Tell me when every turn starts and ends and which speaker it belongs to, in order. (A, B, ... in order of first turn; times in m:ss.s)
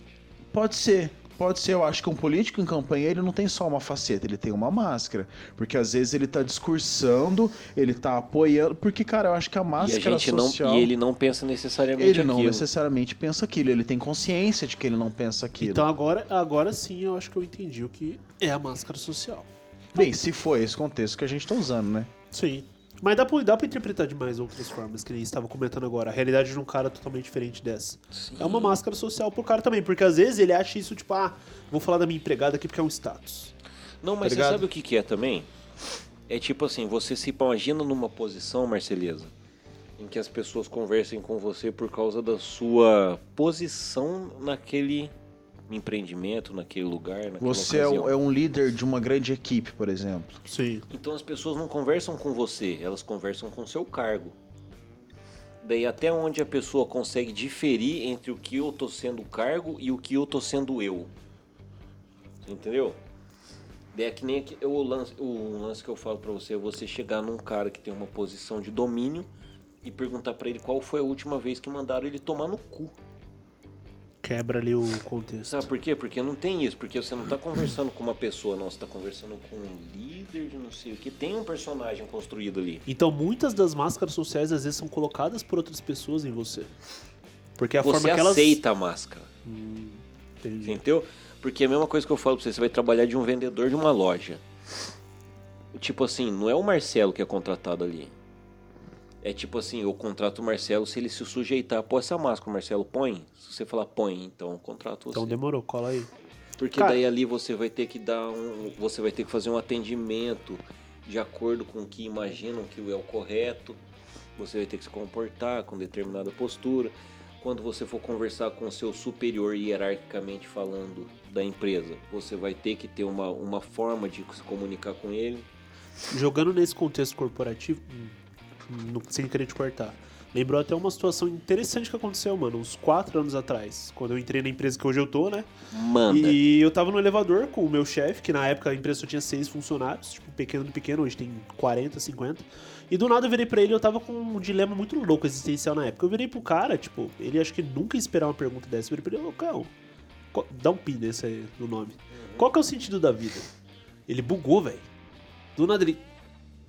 0:00.5-0:10.9 A
0:09.8-0:12.7 B
0:12.0-0:15.9 A
0:15.6-0:20.1 C
0:19.9-0:22.1 A
0:22.3-0:33.5 C
0:28.1-0:28.8 B
0:34.0-0:35.5 B
0:34.2-0:34.6 C
0:36.3-0:39.3 B
0:40.0-0:45.1 B
0:45.7-0:48.1 B
0:47.4-0:50.4 A
0:50.4-0:50.8 C
0:50.9-0:54.3 B
0:55.6-1:01.1 B
1:02.4-1:03.0 B
1:03.9-1:09.3 B
1:09.8-1:12.9 B
1:14.2-1:15.6 C
1:15.4-1:22.8 B
1:22.8-1:26.7 C
1:27.6-1:28.6 C
1:27.8-1:29.3 B
1:29.4-1:30.8 C
1:30.6-1:34.4 B
1:35.7-1:38.1 B
1:39.2-1:45.4 B
1:45.1-1:46.1 C
1:46.6-1:53.8 B
1:46.7-1:47.0 C
1:54.4-2:05.4 B
2:06.1-2:08.1 C
2:08.7-2:15.5 C
2:15.7-2:16.4 B
2:16.1-2:29.7 C
2:30.3-2:33.5 C
2:32.1-2:32.5 B
2:34.1-2:34.8 C
2:35.6-2:36.0 C